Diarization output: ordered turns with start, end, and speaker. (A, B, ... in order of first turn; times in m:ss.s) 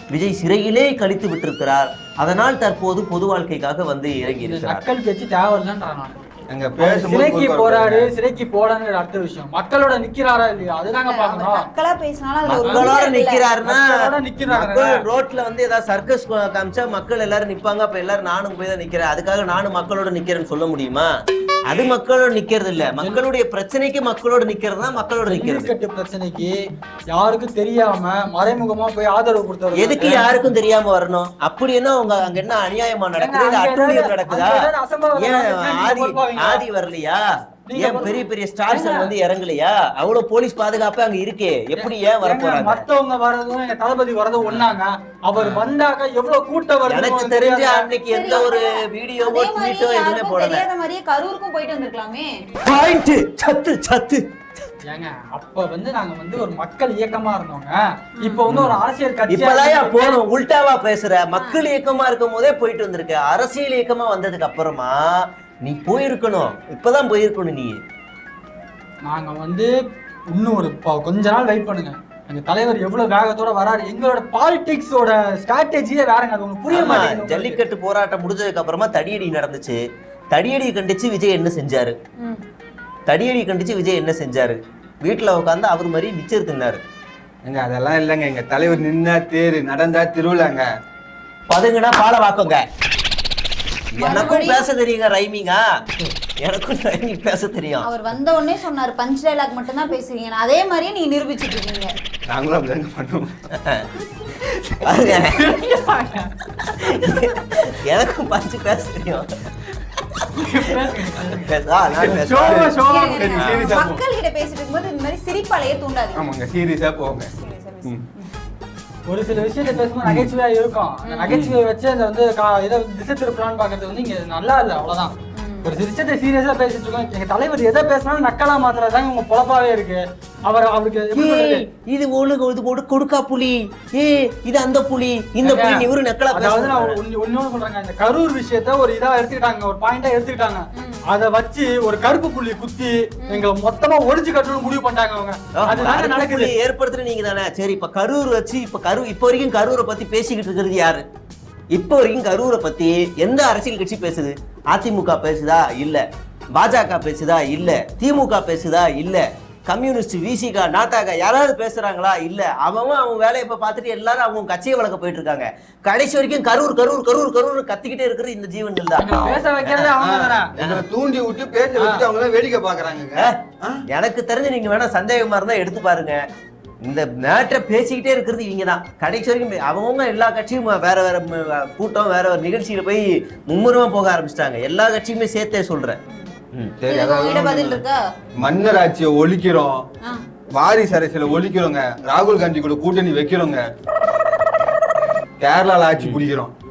0:00.1-0:04.8 A
0:04.4-0:06.2 B
0:06.5-0:08.1 C
0:06.8-0:11.7 B
0:11.0-0:13.5 D
0:12.4-0:21.1 A
0:12.6-0:12.9 B
0:13.6-0:15.0 B
0:21.7-0:25.7 A
0:25.3-0:26.6 B
0:27.1-0:30.3 B
0:29.8-0:34.6 A
0:33.2-0:36.6 B
0:35.2-0:37.2 A
0:37.7-0:38.2 B
0:37.8-0:42.8 A
0:38.7-0:39.1 B
0:41.8-0:47.9 B
0:46.9-0:50.7 A
0:48.1-0:48.7 D
0:49.2-0:52.3 D
0:52.6-0:54.2 A
0:54.8-1:00.2 B
0:58.5-1:07.8 A
1:01.4-1:01.7 D
1:09.0-1:09.8 B
1:10.3-1:17.6 B
1:16.7-1:22.0 A
1:23.1-1:26.8 A
1:27.4-1:30.6 C
1:31.5-1:32.6 A
1:33.9-1:37.9 A
1:34.0-1:34.7 D
1:37.8-1:41.9 D
1:42.3-1:43.4 C
1:43.6-1:43.9 A
1:44.8-1:45.6 A
1:45.2-1:46.3 B
1:46.6-1:49.5 A
1:50.3-1:53.8 B
1:51.2-1:52.8 A
1:52.0-1:54.0 C
1:52.8-1:56.2 D
1:56.2-1:57.3 C
1:57.4-1:58.3 D
1:59.1-2:11.6 B
2:00.0-2:00.3 C
2:01.1-2:01.4 D
2:01.3-2:01.6 C
2:05.4-2:05.8 D
2:11.1-2:17.0 A
2:15.4-2:26.5 B
2:20.8-2:21.0 D
2:25.6-2:31.0 A
2:31.7-2:36.0 A
2:36.6-2:49.9 A
2:49.0-2:50.5 B
2:50.0-2:53.8 C
2:50.6-2:50.8 A
2:51.8-2:52.1 B
2:53.9-2:56.2 A
2:56.8-3:06.0 A
3:06.5-3:06.8 A
3:06.8-3:07.8 C
3:06.9-3:08.0 D
3:08.4-3:09.9 C
3:10.5-3:13.6 C
3:15.4-3:16.5 C